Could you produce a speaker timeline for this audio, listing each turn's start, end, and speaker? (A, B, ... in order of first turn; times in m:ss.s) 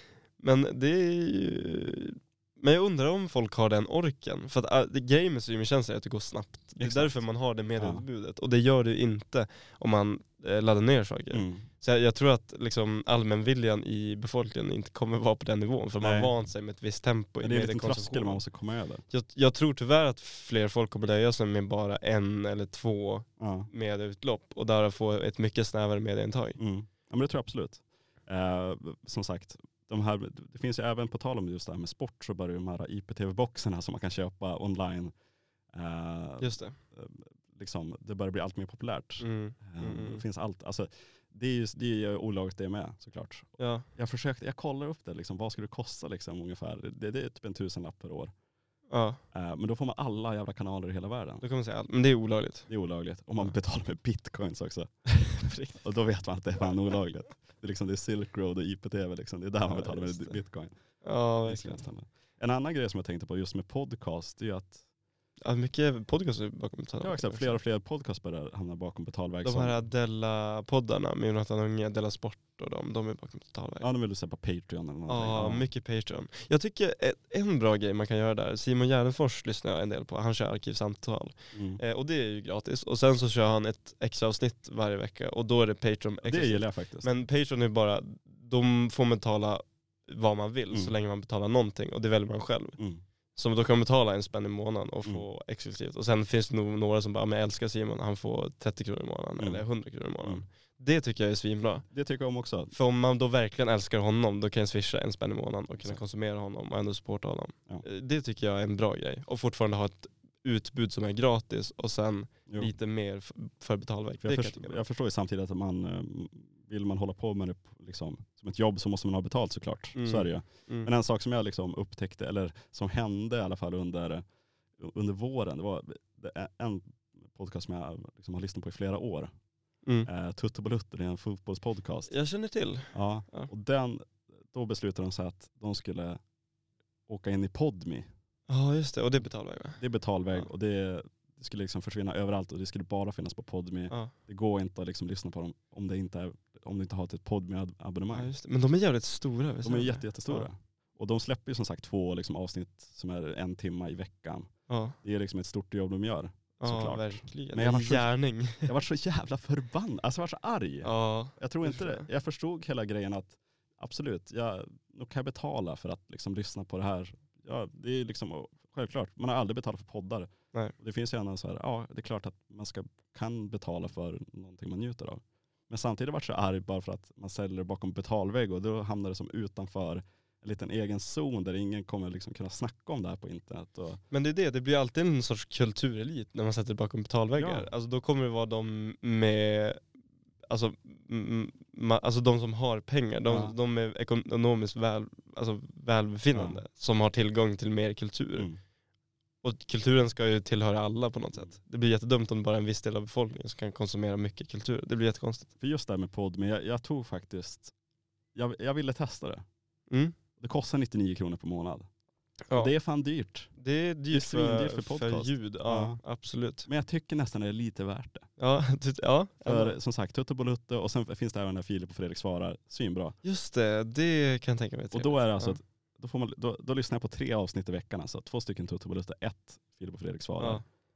0:00.4-0:18.4 A
0:06.8-0:07.1 B
0:07.8-0:08.0 B
0:11.3-0:11.6 B
0:16.0-0:16.3 B
0:17.4-0:19.0 B
0:19.1-0:26.6 A
0:23.4-0:23.7 B
0:26.6-0:35.1 B
0:35.7-0:48.3 B
0:36.4-0:36.8 A
0:39.2-0:40.2 A
0:43.6-0:43.9 A
0:48.9-0:49.2 A
0:49.3-0:51.4 B
0:51.4-0:52.7 A
0:52.7-0:55.1 B
0:55.2-0:55.8 A
0:55.8-1:00.7 B
0:59.6-1:00.4 A
1:01.0-1:01.8 A
1:01.4-1:04.8 B
1:05.4-1:07.6 A
1:07.0-1:09.8 B
1:09.4-1:13.8 A
1:13.8-1:15.7 B
1:15.1-1:32.8 A
1:21.5-1:21.8 B
1:26.2-1:27.1 B
1:32.8-1:33.0 B
1:33.3-1:41.8 A
1:41.9-1:42.7 B
1:42.7-1:54.8 A
1:54.2-2:04.2 B
1:59.9-2:00.9 A
2:04.8-2:09.3 B
2:10.0-2:12.1 B
2:12.1-2:13.5 A
2:12.9-2:16.2 B
2:17.1-2:18.1 B
2:18.5-2:19.8 A
2:19.8-2:28.3 B
2:28.1-2:30.5 A
2:29.6-2:34.5 B
2:34.7-2:35.0 A
2:35.0-2:38.1 B
2:36.6-2:38.7 A
2:38.6-3:04.0 B
2:40.8-2:42.1 A
3:04.1-3:09.8 A
3:07.4-3:07.7 B
3:10.5-3:18.5 A
3:13.3-3:13.5 B
3:16.3-3:16.6 B
3:19.4-3:25.5 A
3:25.6-3:27.7 B
3:28.3-3:29.4 B
3:29.9-3:30.1 A
3:30.4-3:31.9 B
3:32.5-3:33.5 B
3:33.6-3:36.7 A
3:34.1-3:36.0 B
3:36.6-3:38.3 B
3:38.4-3:39.7 A
3:39.4-3:43.2 B
3:43.2-3:45.6 A
3:44.9-3:50.6 B
3:50.4-3:50.6 A